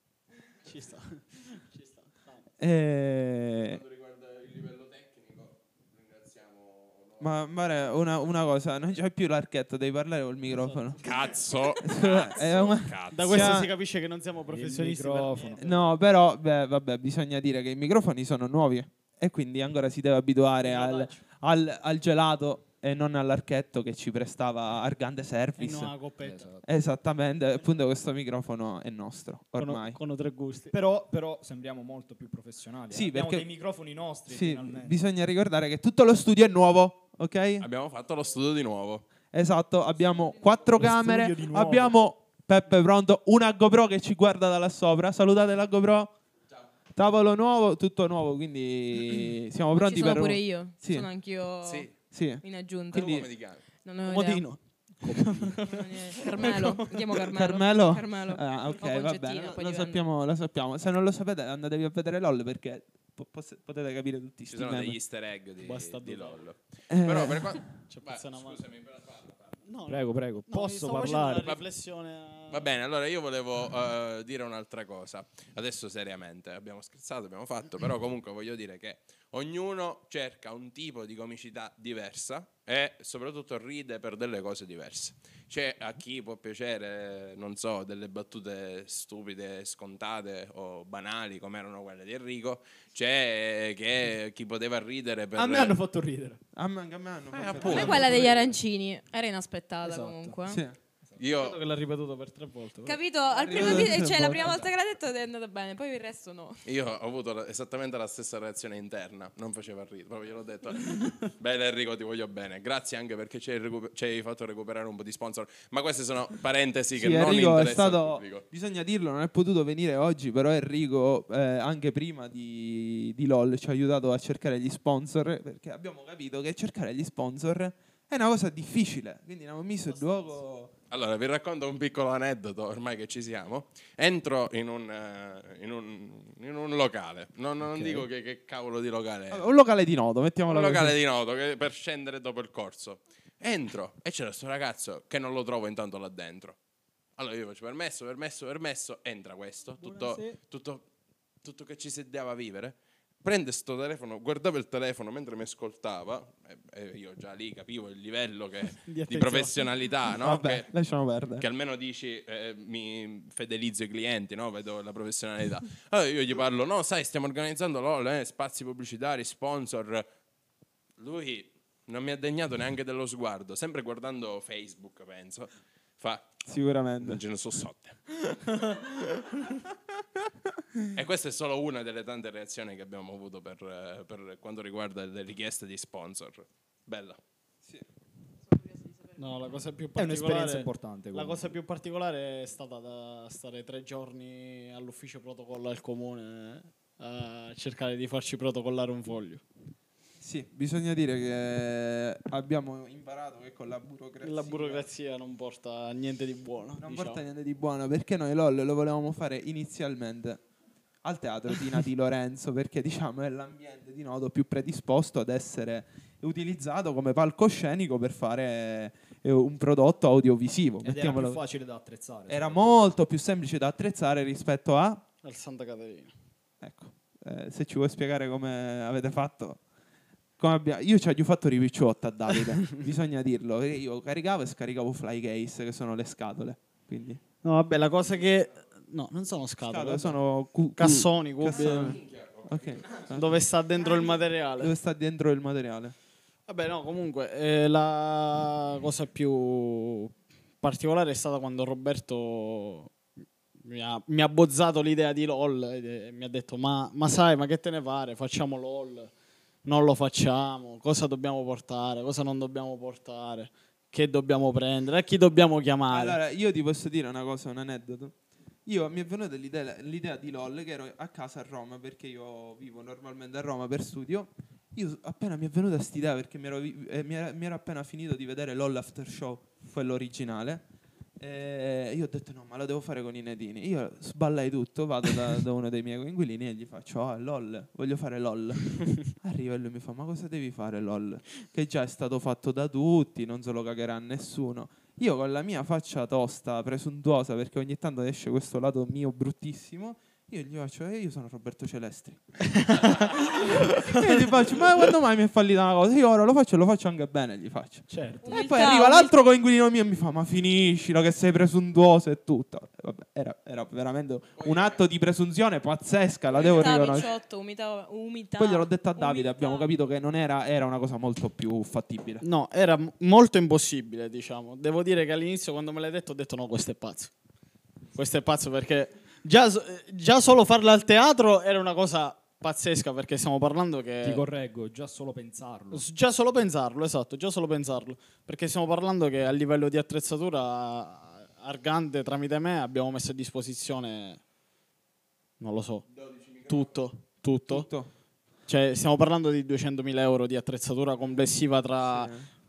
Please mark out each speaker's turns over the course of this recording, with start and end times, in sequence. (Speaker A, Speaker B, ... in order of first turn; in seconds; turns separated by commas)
Speaker A: 0.6-2.4, Speaker B: 2.6-3.8, Speaker C: 3.6-7.3, Speaker B: 7.2-11.1, Speaker A: 10.6-11.3, Speaker C: 11.0-13.5, Speaker B: 11.8-13.7, Speaker A: 13.1-15.8, Speaker D: 14.5-15.7, Speaker B: 15.6-25.9, Speaker A: 20.6-21.2, Speaker A: 25.6-26.6, Speaker B: 26.6-30.0, Speaker A: 29.6-30.7, Speaker D: 30.7-35.0, Speaker B: 32.9-33.5, Speaker B: 34.3-37.7, Speaker C: 37.6-39.0, Speaker B: 39.3-46.1, Speaker D: 40.8-41.9, Speaker B: 46.9-51.1, Speaker E: 49.8-54.5, Speaker C: 51.6-51.9, Speaker B: 52.1-53.3, Speaker C: 52.9-53.7, Speaker A: 54.0-57.0, Speaker D: 55.0-55.6, Speaker E: 55.6-60.0, Speaker B: 57.3-65.0, Speaker C: 64.5-69.6, Speaker A: 65.6-66.4, Speaker B: 66.9-67.6, Speaker A: 67.9-68.6, Speaker A: 69.7-72.7, Speaker D: 69.9-71.6, Speaker C: 72.5-95.8, Speaker D: 95.3-96.4, Speaker B: 96.5-98.3, Speaker C: 97.3-98.2, Speaker D: 97.7-98.3, Speaker E: 97.7-100.6, Speaker D: 99.8-100.3, Speaker B: 100.5-100.8, Speaker C: 101.2-101.6, Speaker A: 101.2-103.0, Speaker E: 102.8-106.6, Speaker B: 103.3-104.6, Speaker C: 106.7-118.5, Speaker B: 116.9-130.7, Speaker C: 130.9-139.5, Speaker D: 137.7-138.0, Speaker B: 139.3-141.0, Speaker C: 140.5-146.6, Speaker C: 147.2-150.8, Speaker D: 149.8-150.4, Speaker C: 151.4-160.8, Speaker A: 158.8-159.7, Speaker B: 160.1-161.5, Speaker C: 161.4-170.1, Speaker C: 171.0-176.4, Speaker B: 176.4-177.2, Speaker C: 177.0-179.5, Speaker C: 180.9-187.2, Speaker E: 188.6-189.2, Speaker A: 189.2-199.4, Speaker D: 190.0-191.6, Speaker B: 200.2-204.8, Speaker A: 204.2-207.2, Speaker B: 206.8-210.4, Speaker B: 211.0-221.4, Speaker D: 220.8-222.6, Speaker B: 222.3-225.0, Speaker A: 225.2-226.1, Speaker B: 226.6-229.6, Speaker B: 230.4-237.2, Speaker A: 237.4-240.2, Speaker B: 239.7-243.3, Speaker A: 240.8-242.0, Speaker C: 241.5-243.1, Speaker A: 243.1-244.7, Speaker B: 244.6-245.9, Speaker A: 246.5-252.9, Speaker A: 253.6-259.1, Speaker A: 259.6-266.2, Speaker B: 265.9-268.1, Speaker B: 268.6-280.6, Speaker B: 281.2-317.1, Speaker D: 307.9-308.2, Speaker E: 308.2-309.1, Speaker C: 314.4-314.8, Speaker C: 316.4-316.9, Speaker E: 316.4-319.7, Speaker B: 318.4-322.2, Speaker A: 322.2-327.1, Speaker A: 327.9-334.2, Speaker D: 334.0-335.9, Speaker A: 335.7-344.2, Speaker A: 345.4-345.9, Speaker C: 346.0-346.7, Speaker A: 346.5-347.7, Speaker B: 347.5-347.9, Speaker A: 348.5-352.1, Speaker B: 351.9-352.3